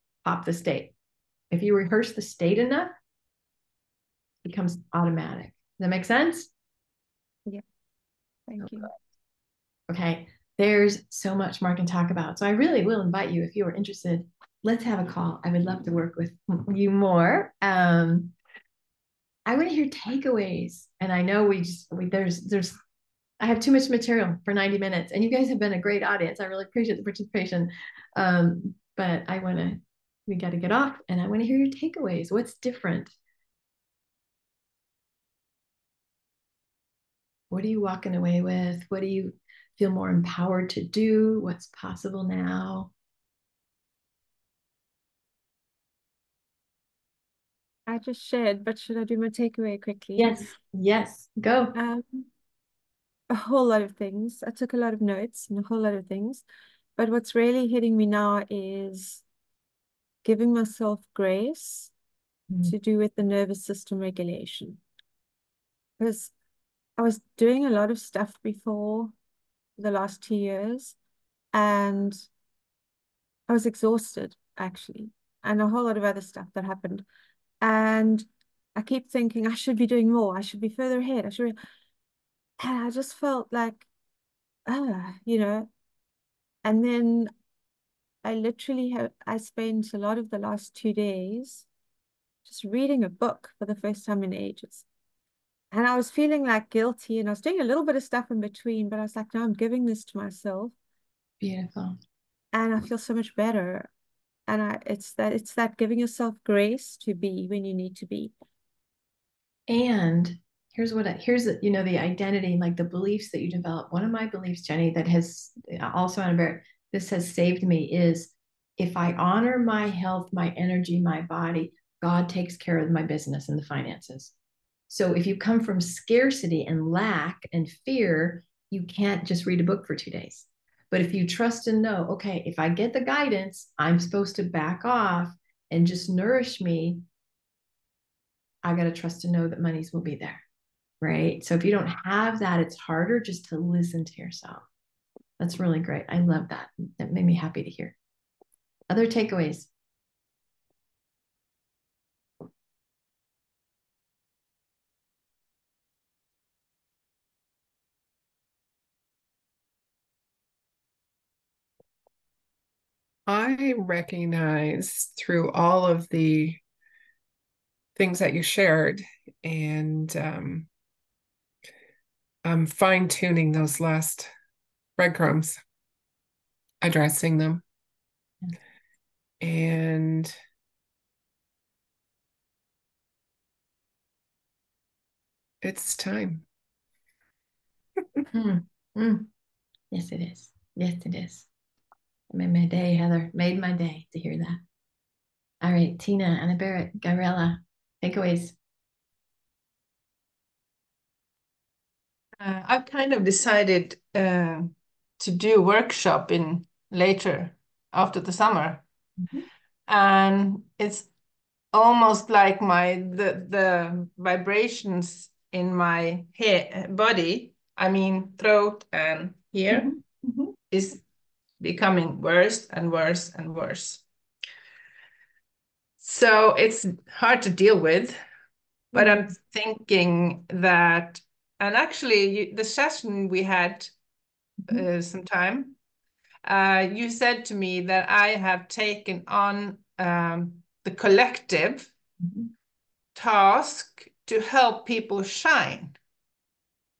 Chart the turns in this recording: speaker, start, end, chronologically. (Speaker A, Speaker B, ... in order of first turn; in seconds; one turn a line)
Speaker A: 0.2-0.9
Speaker A: 1.5-2.9
Speaker A: 4.4-6.5
Speaker B: 8.5-8.9
Speaker A: 8.6-8.9
Speaker A: 9.9-18.3
Speaker A: 19.4-22.8
Speaker A: 23.4-33.1
Speaker A: 37.5-42.9
Speaker B: 47.9-50.5
Speaker A: 50.2-51.8
Speaker B: 51.7-52.3
Speaker B: 53.3-56.4
Speaker B: 57.0-59.2
Speaker B: 60.2-61.9
Speaker B: 62.6-64.8
Speaker B: 66.0-66.3
Speaker B: 67.0-69.1
Speaker B: 69.8-71.0
Speaker B: 71.5-72.3
Speaker B: 73.5-77.0
Speaker B: 77.6-81.6
Speaker B: 82.6-83.9
Speaker B: 84.7-85.7
Speaker B: 86.6-87.3
Speaker B: 88.2-91.7
Speaker B: 92.4-94.8
Speaker B: 95.7-100.7
Speaker A: 101.4-102.0
Speaker B: 102.5-103.9
Speaker B: 104.5-108.3
Speaker A: 109.7-124.3
Speaker A: 124.9-137.0
Speaker A: 138.6-140.4
Speaker A: 141.0-144.6
Speaker A: 145.4-147.9
Speaker A: 148.9-149.7
Speaker C: 163.3-166.6
Speaker C: 167.9-170.7
Speaker C: 172.4-174.3
Speaker C: 175.0-175.6
Speaker C: 176.8-177.6
Speaker C: 179.4-180.3
Speaker C: 185.6-186.4
Speaker A: 188.3-189.3
Speaker A: 189.9-191.5
Speaker A: 192.3-194.6
Speaker A: 195.6-198.6
Speaker D: 202.4-208.8
Speaker D: 209.9-211.1
Speaker D: 211.7-219.9
Speaker A: 219.7-220.5
Speaker D: 220.7-221.0
Speaker D: 221.6-224.0
Speaker D: 226.0-228.2
Speaker D: 228.9-233.9
Speaker D: 234.7-235.8
Speaker D: 236.4-241.9
Speaker A: 242.2-242.5
Speaker D: 243.2-246.0